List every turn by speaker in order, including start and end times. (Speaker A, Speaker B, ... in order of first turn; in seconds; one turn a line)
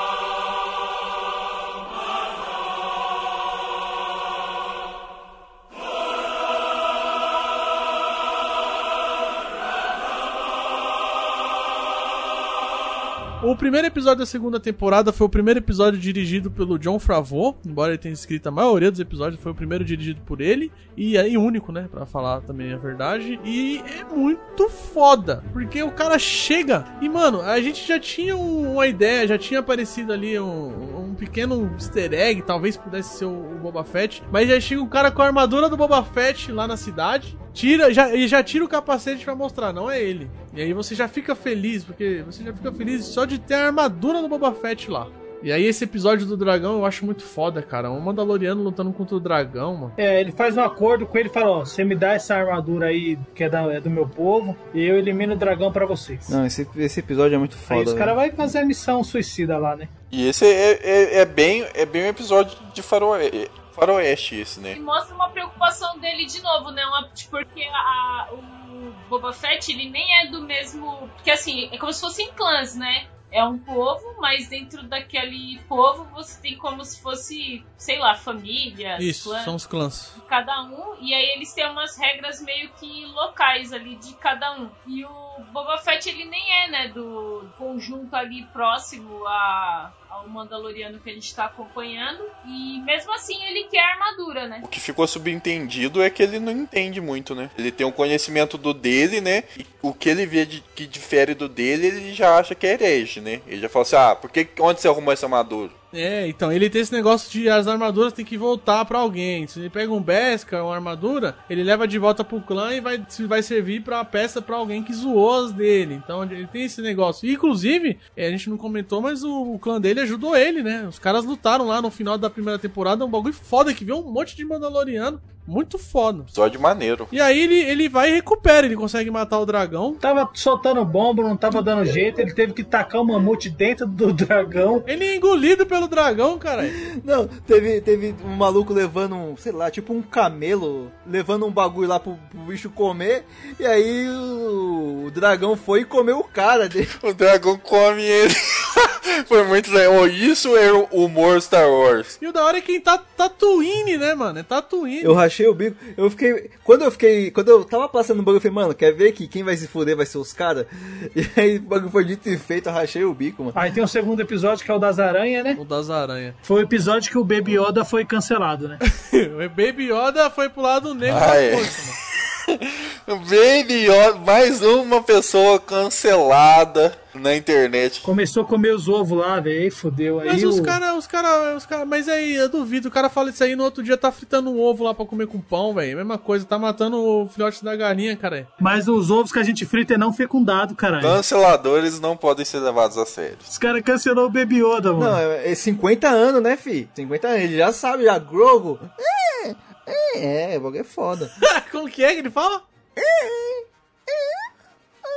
Speaker A: 13.4-49.9
Speaker B: 50.0-56.4
Speaker C: 56.3-58.1
Speaker B: 57.7-59.9
Speaker D: 60.1-64.8
Speaker E: 64.7-79.5
Speaker A: 79.0-80.2
Speaker E: 80.2-94.6
Speaker D: 94.6-105.7
Speaker A: 105.9-126.3
Speaker D: 126.3-127.1
Speaker A: 127.1-130.0
Speaker B: 130.0-134.9
Speaker A: 134.8-136.8
Speaker C: 136.6-146.9
Speaker D: 147.0-152.2
Speaker A: 152.2-155.2
Speaker C: 155.0-163.6
Speaker B: 163.5-165.6
Speaker A: 165.6-166.4
Speaker B: 166.4-168.8
Speaker A: 168.8-171.9
Speaker D: 171.1-171.7
Speaker D: 172.5-178.1
Speaker B: 178.0-180.8
Speaker A: 180.2-188.5
Speaker B: 188.6-191.2
Speaker D: 191.0-193.4
Speaker B: 193.5-195.2
Speaker C: 195.0-201.3
Speaker A: 201.4-202.6
Speaker C: 203.0-204.3